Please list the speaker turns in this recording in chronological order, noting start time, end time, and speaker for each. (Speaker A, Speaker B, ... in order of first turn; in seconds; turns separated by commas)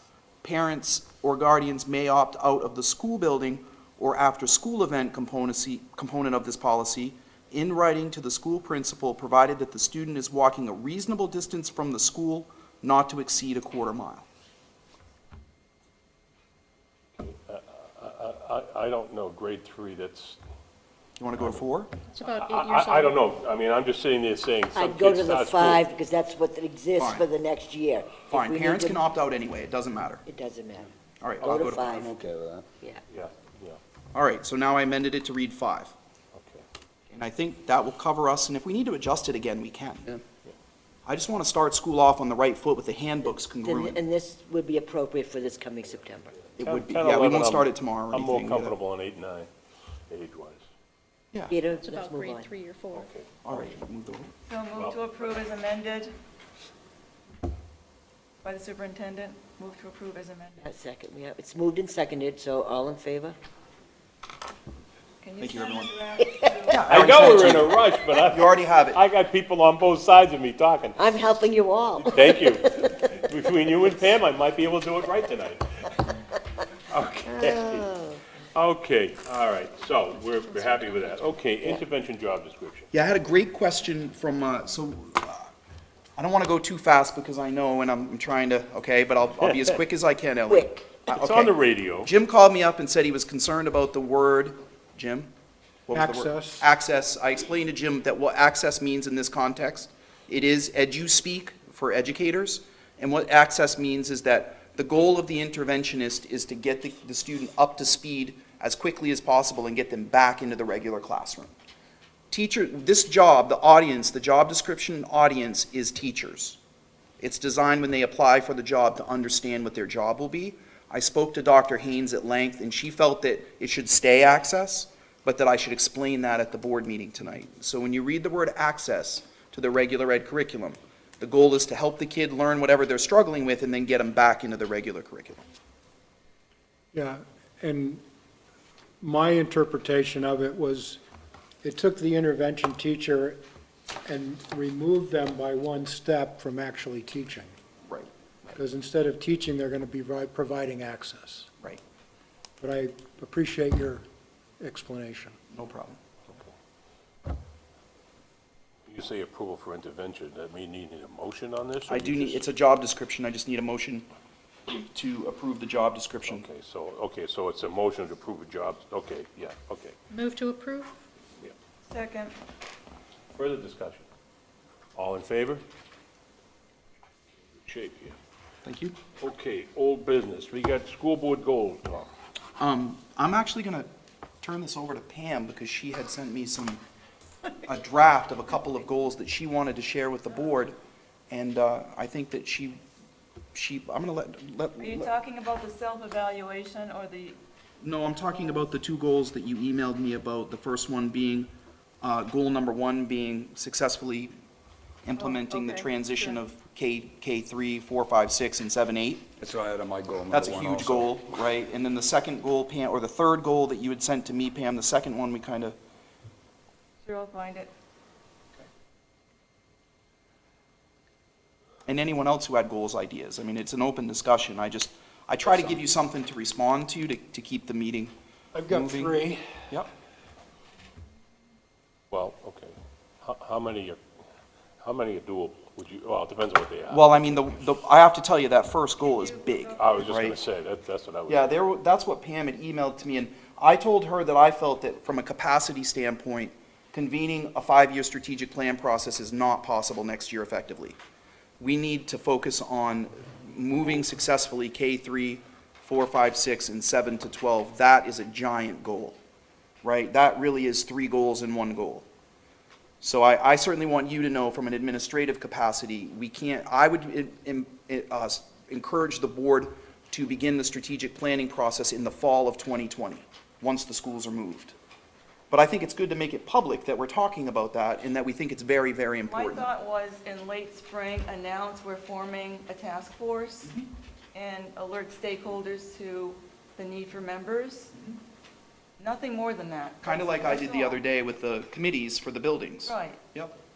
Speaker A: 0.4-14.3, Speaker B: 17.2-20.4, Speaker A: 21.2-21.9, Speaker C: 22.1-23.2, Speaker B: 22.3-25.8, Speaker D: 24.7-29.0, Speaker A: 27.0-27.2, Speaker A: 28.3-30.2, Speaker D: 30.3-30.9, Speaker A: 31.2-31.9, Speaker D: 31.4-32.1, Speaker E: 31.7-32.7, Speaker B: 33.1-33.8, Speaker A: 34.1-35.9, Speaker B: 36.4-36.6, Speaker A: 37.1-40.1, Speaker A: 41.1-44.0, Speaker D: 43.6-46.5, Speaker A: 46.6-48.8, Speaker B: 46.6-49.5, Speaker B: 50.1-50.7, Speaker D: 51.5-52.5, Speaker C: 51.8-53.0, Speaker B: 52.9-53.7, Speaker A: 53.5-54.3, Speaker F: 54.5-56.1, Speaker B: 54.7-55.5, Speaker F: 58.4-60.6, Speaker D: 60.6-63.4, Speaker F: 65.2-66.9, Speaker A: 65.4-65.9, Speaker D: 66.2-66.8, Speaker A: 66.7-69.0, Speaker B: 66.9-71.0, Speaker D: 71.0-73.4, Speaker B: 72.1-75.9, Speaker B: 76.9-77.9, Speaker D: 77.2-78.2, Speaker B: 78.5-82.9, Speaker A: 82.9-85.5, Speaker A: 86.2-95.3, Speaker B: 89.4-89.7, Speaker D: 90.5-91.1, Speaker B: 91.1-92.1, Speaker A: 95.9-111.5, Speaker G: 95.9-96.7, Speaker A: 112.3-116.6, Speaker A: 117.2-135.4, Speaker G: 136.9-138.0, Speaker G: 139.0-141.0, Speaker G: 141.6-143.4, Speaker G: 144.1-147.5, Speaker G: 148.5-151.5, Speaker G: 152.6-154.0, Speaker G: 154.6-155.4, Speaker A: 155.5-156.0, Speaker B: 158.9-162.5, Speaker A: 161.9-164.1, Speaker A: 164.7-166.4, Speaker B: 166.3-170.0, Speaker C: 170.1-171.0, Speaker F: 171.9-172.4, Speaker B: 173.3-174.1, Speaker B: 174.9-175.6, Speaker B: 177.6-178.2, Speaker A: 178.7-178.9, Speaker B: 179.2-182.1, Speaker A: 182.6-183.9, Speaker A: 184.4-186.8, Speaker A: 187.6-190.7, Speaker A: 191.3-192.8, Speaker A: 193.6-195.1, Speaker F: 194.8-197.4, Speaker A: 197.8-201.5, Speaker A: 202.0-204.3, Speaker A: 205.1-209.3, Speaker E: 209.4-211.1, Speaker A: 210.3-215.8, Speaker F: 217.1-217.7, Speaker A: 221.9-228.1, Speaker G: 228.5-229.5, Speaker A: 228.7-229.1, Speaker B: 232.1-234.0, Speaker B: 234.8-237.2, Speaker A: 236.9-240.4, Speaker F: 239.0-239.8, Speaker B: 239.8-241.5, Speaker A: 241.3-251.0, Speaker A: 251.6-259.2, Speaker A: 259.8-262.1, Speaker A: 263.0-274.8, Speaker A: 275.5-279.7, Speaker F: 279.3-283.7, Speaker F: 284.3-287.9, Speaker F: 289.0-291.0, Speaker A: 290.0-293.6, Speaker F: 292.9-293.2